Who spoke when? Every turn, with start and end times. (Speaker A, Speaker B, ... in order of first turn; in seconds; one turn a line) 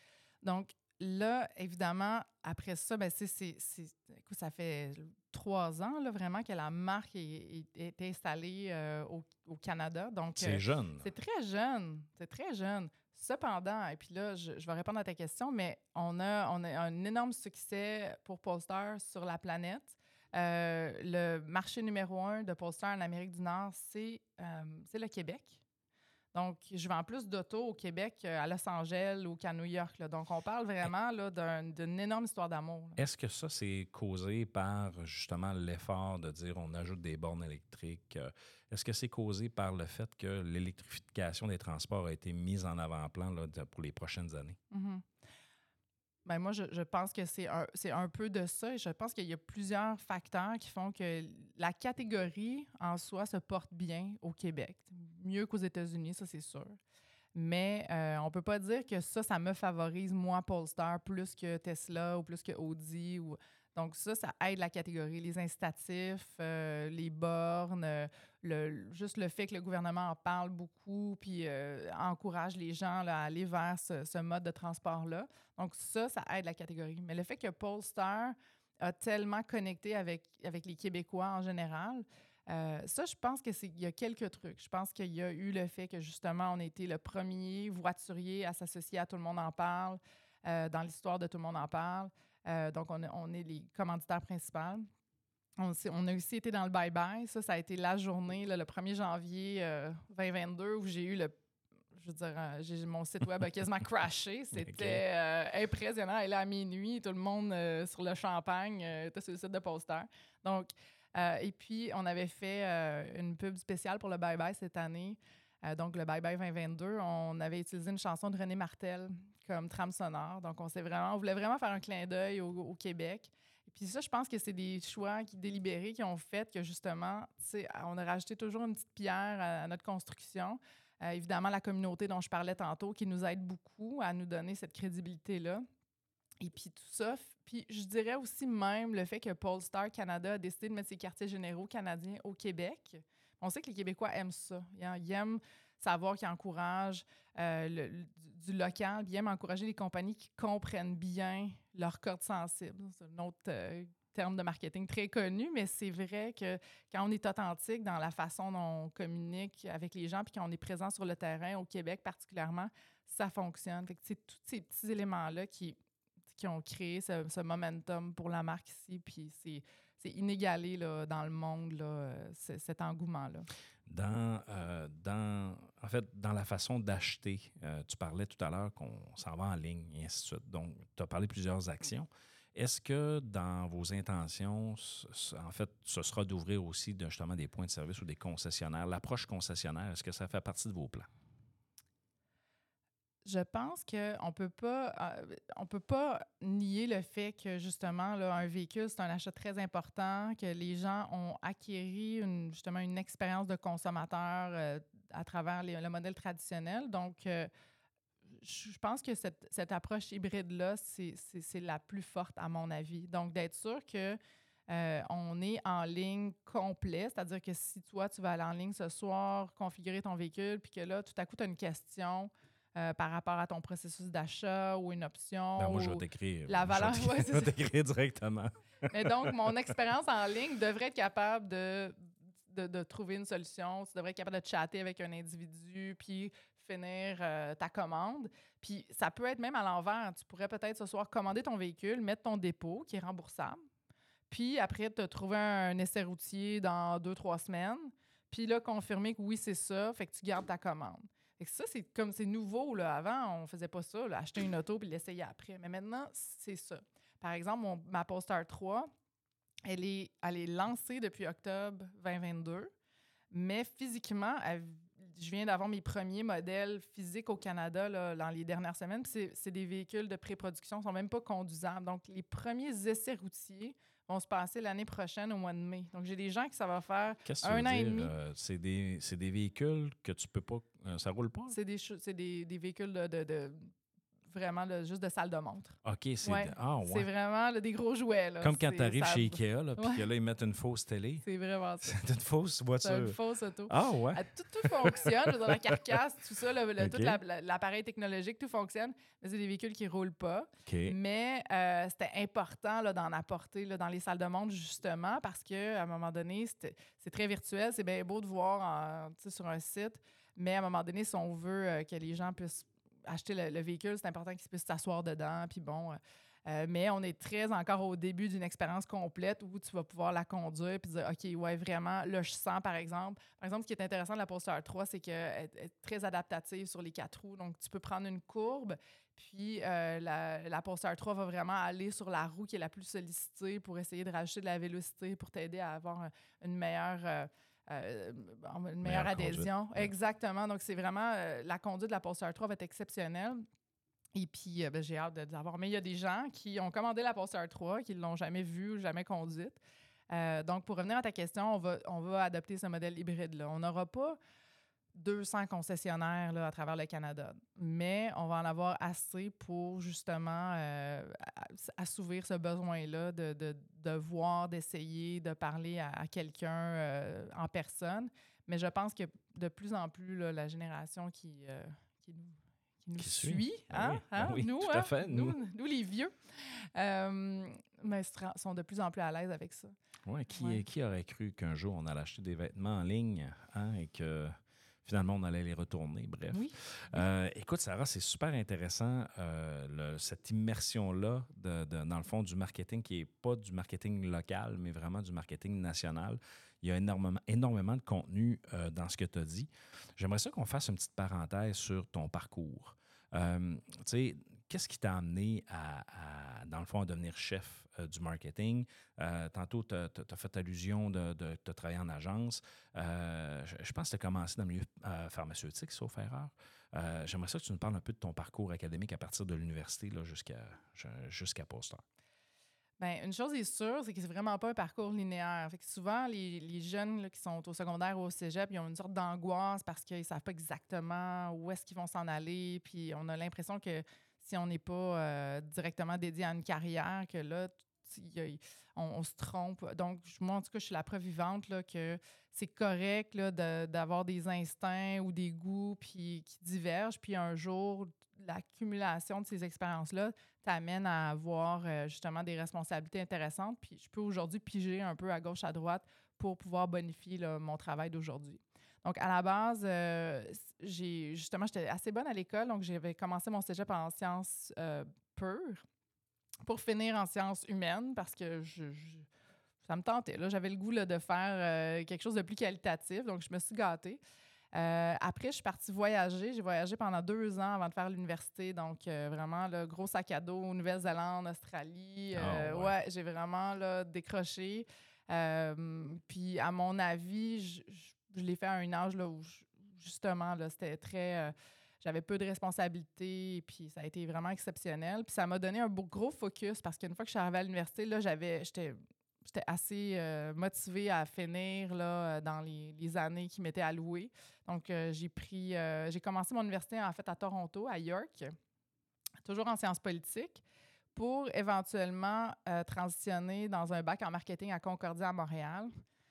Speaker A: 0.4-25.6
Speaker B: 10.3-11.1
Speaker A: 26.3-33.0
Speaker B: 33.0-44.6
Speaker A: 44.7-45.0
Speaker A: 46.2-56.7
Speaker A: 57.3-94.8
Speaker A: 95.6-101.4
Speaker A: 101.9-135.6
Speaker B: 104.6-105.0
Speaker A: 136.4-165.8
Speaker A: 166.3-173.5
Speaker B: 173.9-191.1
Speaker A: 193.2-207.5
Speaker A: 208.4-214.2
Speaker A: 214.7-227.5
Speaker B: 225.6-229.3
Speaker A: 228.9-243.6
Speaker A: 244.3-258.9
Speaker A: 259.6-262.7
Speaker A: 263.3-278.1
Speaker B: 277.2-281.5
Speaker A: 281.5-283.7
Speaker A: 284.3-290.0
Speaker B: 285.8-287.1
Speaker B: 288.4-291.2
Speaker A: 291.2-292.0
Speaker B: 291.8-293.1
Speaker A: 292.8-343.4
Speaker B: 293.7-295.6
Speaker B: 296.8-297.2
Speaker B: 300.6-300.9
Speaker B: 338.8-339.9
Speaker A: 344.1-354.2
Speaker A: 354.9-379.7
Speaker B: 373.0-375.4
Speaker B: 380.1-421.8
Speaker A: 380.3-380.6
Speaker A: 386.3-387.0
Speaker A: 422.8-465.6
Speaker A: 466.4-469.1
Speaker A: 469.6-474.0
Speaker A: 474.5-508.4
Speaker B: 482.1-482.7
Speaker A: 509.2-510.4
Speaker A: 510.9-515.7